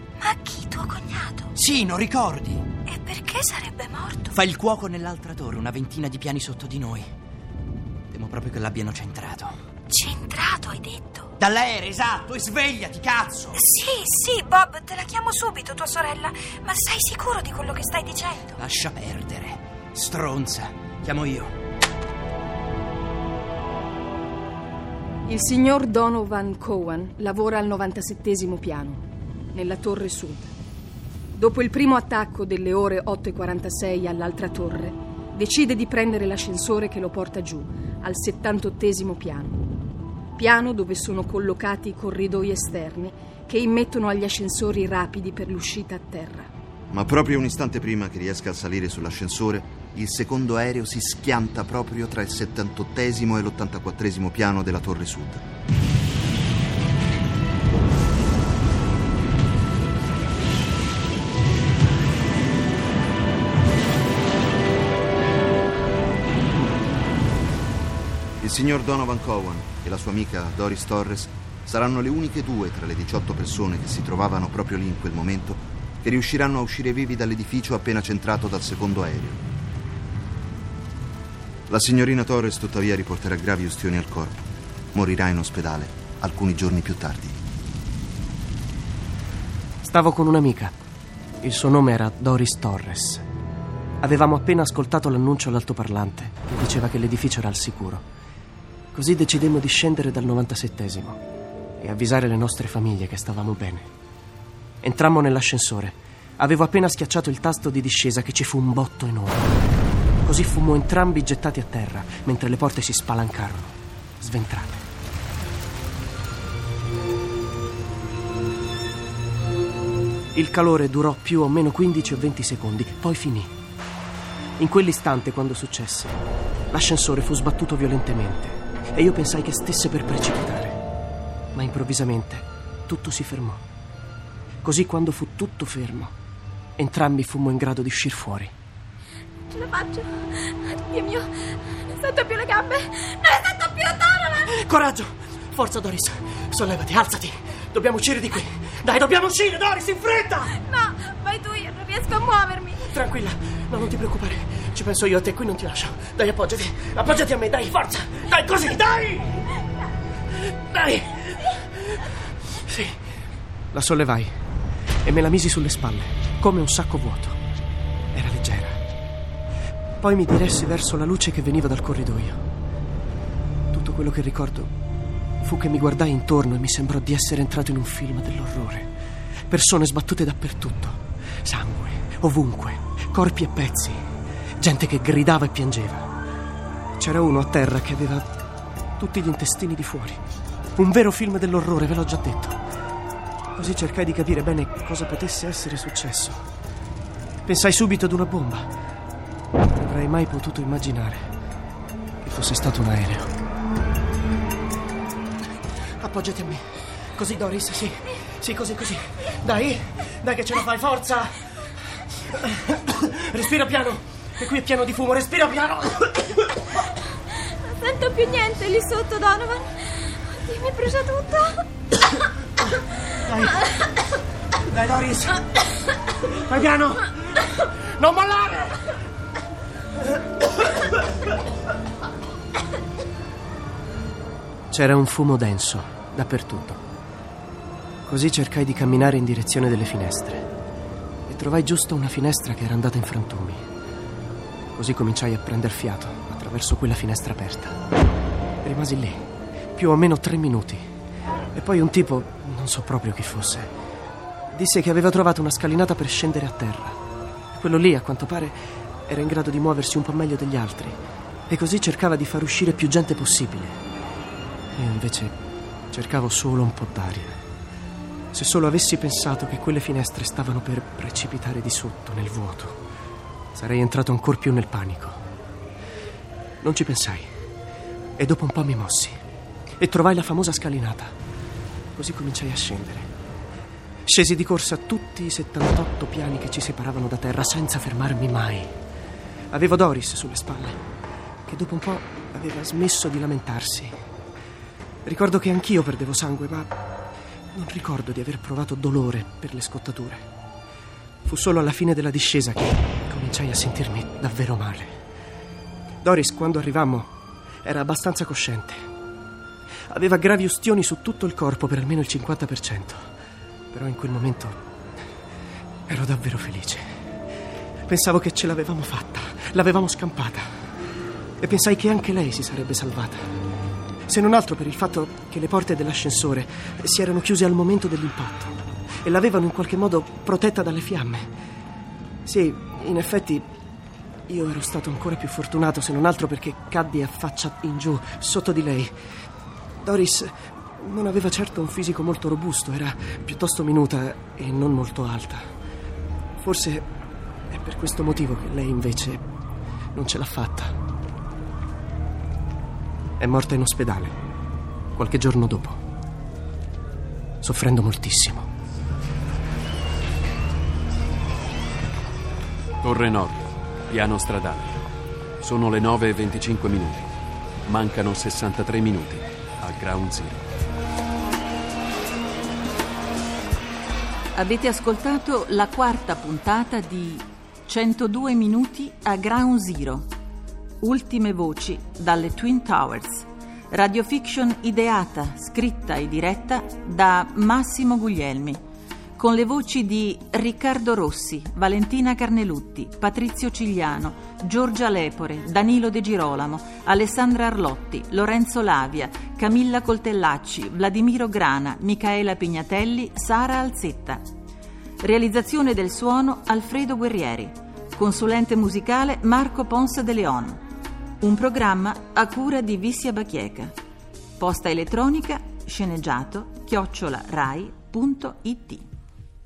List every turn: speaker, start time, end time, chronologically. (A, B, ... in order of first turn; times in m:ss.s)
0:00.2-0:01.5 A
0:01.6-0:02.7 B
0:02.8-0:04.4 A
0:04.3-0:07.1 B
0:08.1-0:09.5 B
0:09.9-0:11.3 A
0:11.4-0:13.7 B
0:13.5-0:18.6 A
0:18.6-0:21.5 B
0:25.2-0:29.0 C
0:29.5-0:30.5 C
0:31.4-0:39.6 C
0:40.4-0:46.5 C
0:46.9-0:55.4 D
1:08.4-1:19.4 D
1:21.7-1:27.4 D
1:29.8-1:30.8 E
1:31.4-1:33.2 E
1:34.0-1:38.0 E
1:38.9-1:41.2 E
1:41.8-1:43.9 E
1:44.8-1:49.5 E
1:50.2-1:54.8 E
2:00.3-2:03.5 E
2:04.6-2:10.8 E
2:11.5-2:13.6 E
2:14.6-2:16.1 E
2:16.8-2:18.5 E
2:19.5-2:24.5 F
2:24.5-2:30.6 E
2:30.6-2:32.8 F
2:32.8-2:39.4 E
2:40.5-2:42.0 E
2:42.7-2:43.0 E
2:43.7-2:44.3 E
2:45.0-2:47.4 E
2:48.1-2:48.8 E
2:50.0-2:52.4 E
2:53.7-2:54.7 E
2:55.4-2:58.9 E
2:59.5-3:04.0 E
3:04.6-3:06.1 E
3:07.0-3:08.3 E
3:09.0-3:10.2 E
3:10.8-3:12.6 E
3:13.5-3:16.4 E
3:17.4-3:18.7 E
3:19.7-3:21.3 E
3:22.2-3:23.3 E
3:26.0-3:26.6 E
3:27.1-3:31.4 E
3:32.3-3:36.4 E
3:37.6-3:41.6 F
3:43.2-3:43.7 E
3:44.7-3:45.4 E
3:46.3-3:48.8 E
3:54.7-3:56.8 E
3:58.0-4:00.5 E
4:01.3-4:03.6 E
4:04.7-4:07.8 E
4:08.6-4:10.9 E
4:11.5-4:13.7 E
4:14.5-4:17.0 E
4:17.5-4:23.8 E
4:24.8-4:25.3 E
4:25.9-4:27.4 E
4:28.3-4:32.8 E
4:33.5-4:35.2 E
4:36.6-4:37.3 E
4:38.2-4:39.2 E
4:39.8-4:41.2 E
4:41.9-4:43.1 E
4:44.0-4:48.7 E
4:49.5-4:50.8 E
4:51.5-4:53.9 E
4:55.0-4:56.7 E
4:57.5-5:00.2 E
5:01.2-5:05.0 E
5:06.0-5:07.1 E
5:07.6-5:08.9 E
5:09.9-5:13.1 E
5:13.7-5:14.6 E
5:15.9-5:17.0 E
5:17.9-5:20.5 E
5:21.4-5:23.3 E
5:24.1-5:31.3 E
5:32.2-5:33.5 E
5:34.3-5:38.9 E
5:39.8-5:45.4 E
5:46.4-5:46.9 E
5:47.5-5:49.2 E
5:49.9-5:50.7 E
5:53.2-5:54.2 E
5:55.0-5:55.8 E
5:57.4-5:58.5 E
6:02.8-6:04.8 G
6:05.4-6:07.1 G
6:07.6-6:10.4 G
6:14.3-6:20.1 H
6:20.8-6:28.6 H
6:29.2-6:44.3 H
6:45.0-6:50.6 H
6:51.2-6:53.7 H
6:54.4-6:58.8 H